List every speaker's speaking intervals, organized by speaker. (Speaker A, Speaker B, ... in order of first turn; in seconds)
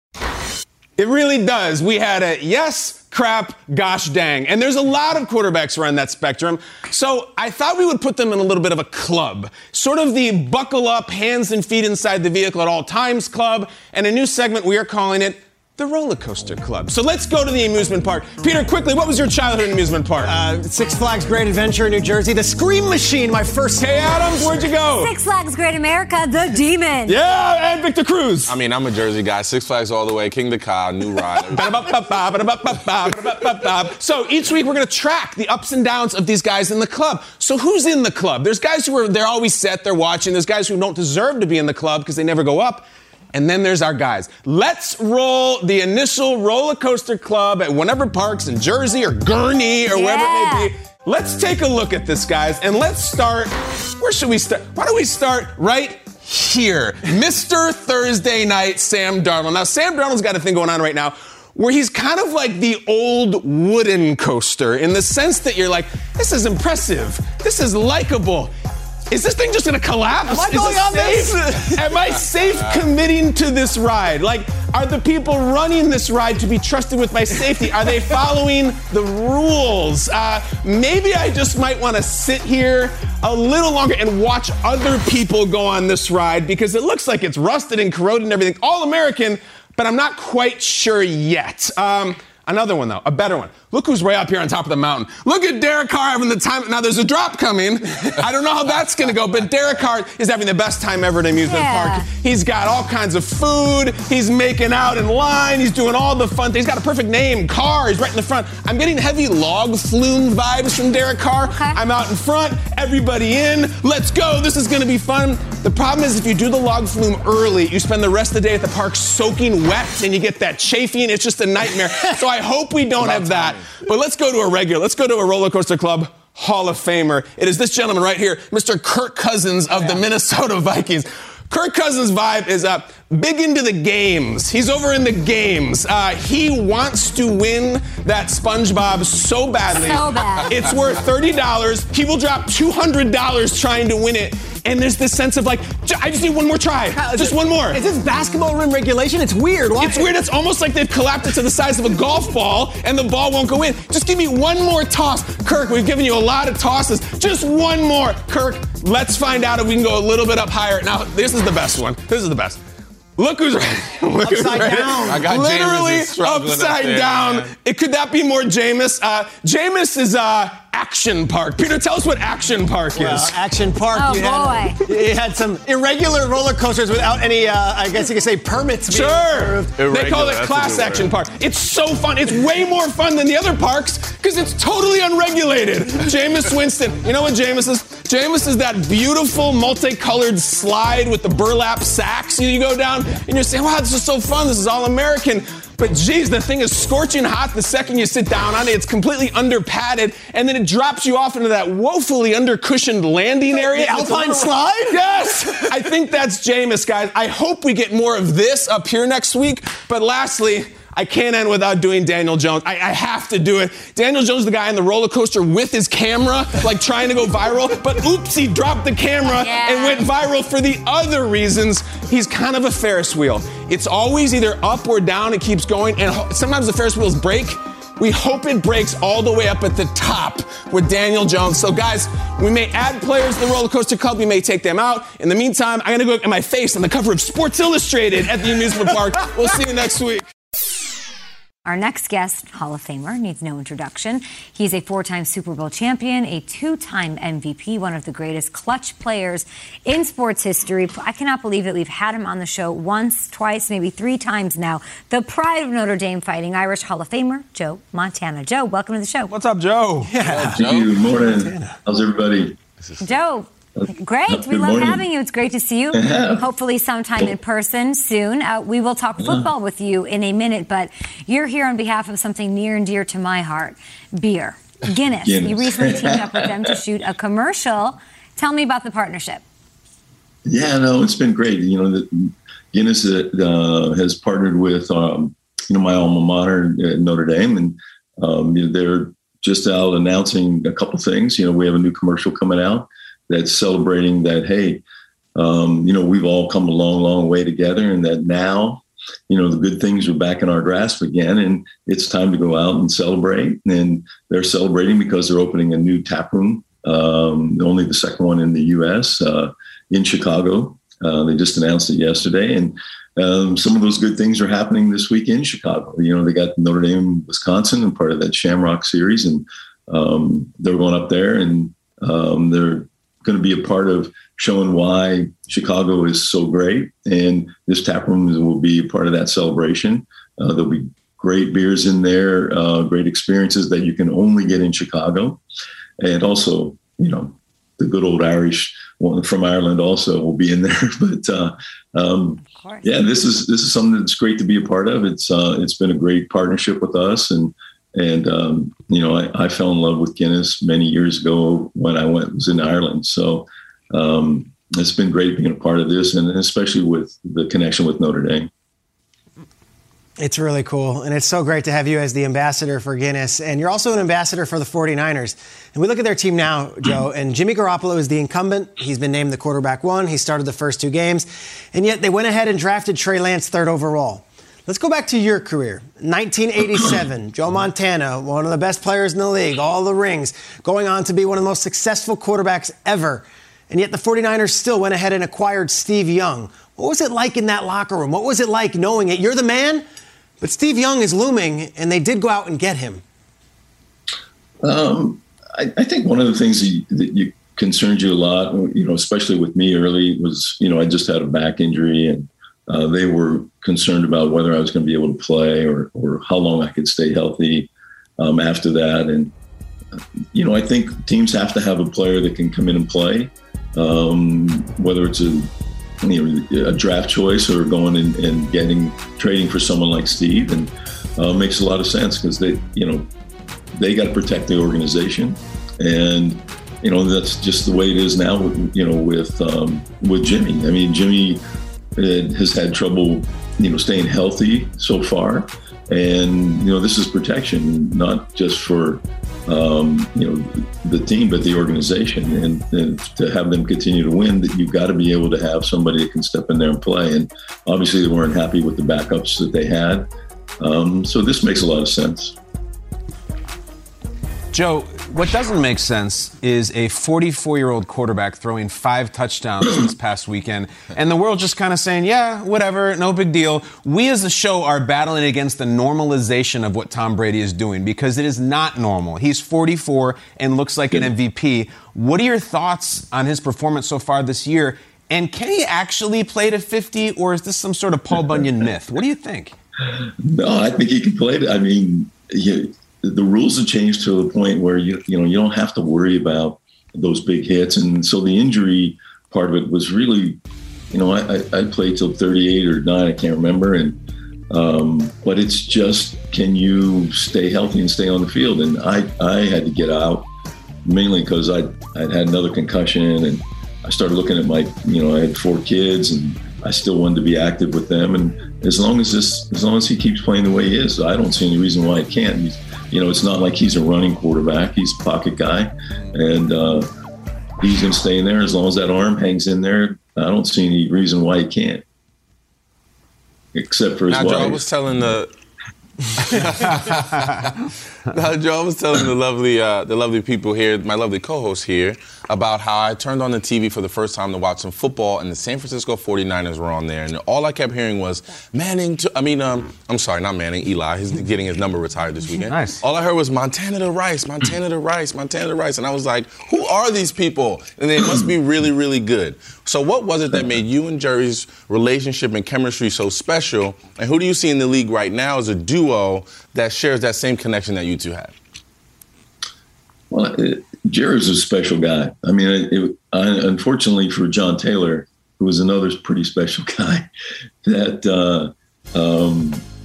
Speaker A: 1.0-20.3, 23.8-25.2, 27.1-28.6, 31.5-68.5, 69.1-147.8, 149.8-162.6, 163.2-173.3, 178.9-240.3, 259.3-260.2, 454.5-479.6, 542.5-542.8
Speaker B: 20.2-24.7, 70.2-72.0, 146.9-150.1, 164.2-165.3, 172.9-179.8, 203.5-205.8, 260.1-261.8, 360.2-389.8, 390.4-393.0
Speaker C: 25.0-27.2, 49.9-50.7, 101.4-102.1, 111.5-111.8, 139.7-140.7, 173.9-174.8, 219.2-220.1, 241.7-259.3, 263.0-279.4, 342.4-342.9
Speaker D: 28.5-31.7, 123.0-123.8, 164.7-167.5, 179.7-181.1, 260.2-261.0, 262.8-263.1, 524.1-525.3, 526.2-527.5, 528.1-558.4
Speaker E: 260.6-262.6, 263.8-265.1, 265.9-266.4, 269.2-269.5, 275.2-276.7, 280.4-294.8, 295.4-335.4, 336.0-358.5, 394.6-409.3, 410.3-415.5, 416.0-423.1, 423.8-431.4, 432.0-450.1, 450.6-452.3, 480.2-490.4, 490.9-500.3, 500.8-516.9, 517.6-521.8, 523.5-524.7, 548.0-548.3, 550.3-550.6, 560.1-567.1, 567.6-569.6